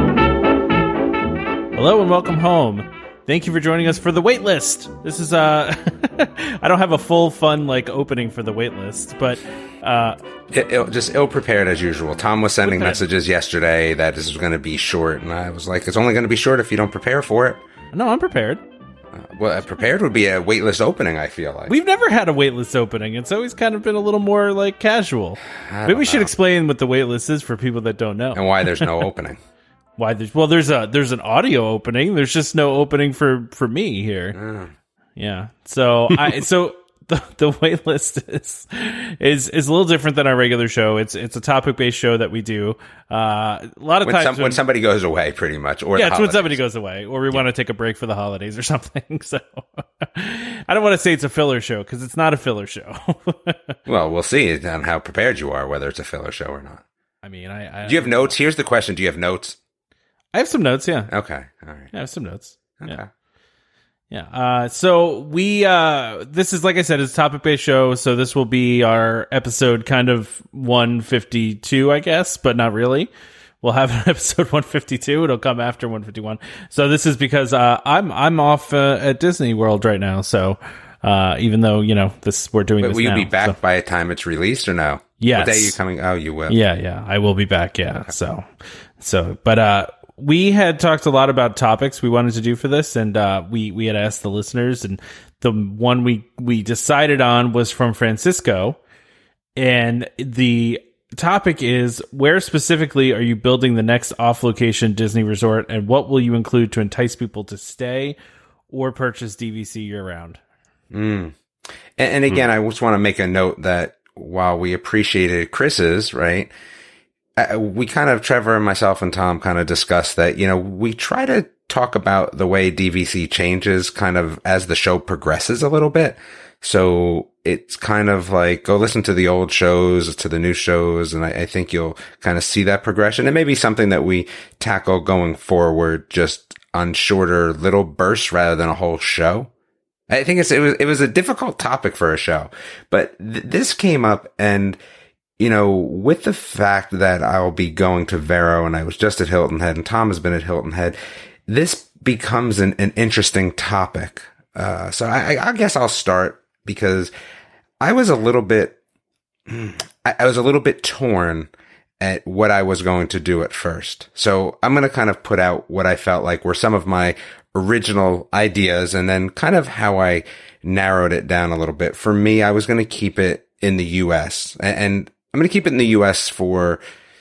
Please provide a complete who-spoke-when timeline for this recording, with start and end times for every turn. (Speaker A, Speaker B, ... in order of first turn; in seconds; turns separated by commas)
Speaker A: 1.8-10.2, Speaker B: 10.5-17.6, Speaker A: 12.6-13.0, Speaker A: 17.9-18.6, Speaker B: 19.1-21.7, Speaker A: 21.7-28.9, Speaker B: 25.7-26.3, Speaker B: 28.3-29.4, Speaker A: 30.0-34.4, Speaker B: 34.3-34.7, Speaker A: 35.2-44.6, Speaker B: 44.0-46.6, Speaker A: 45.9-53.8, Speaker B: 53.9-56.8, Speaker A: 57.2-58.3, Speaker B: 57.9-59.6, Speaker A: 60.3-61.1, Speaker B: 61.1-61.9, Speaker A: 61.9-63.0, Speaker B: 62.8-63.1, Speaker A: 64.1-73.1, Speaker A: 73.6-83.5, Speaker B: 82.8-86.6, Speaker A: 85.2-85.8, Speaker A: 86.5-98.8, Speaker A: 99.6-108.2, Speaker A: 108.7-110.4, Speaker B: 110.9-111.3, Speaker B: 112.0-116.5, Speaker B: 117.4-139.5, Speaker B: 140.1-144.8, Speaker B: 145.4-151.0, Speaker B: 151.5-157.1, Speaker B: 157.8-158.8, Speaker B: 159.5-176.8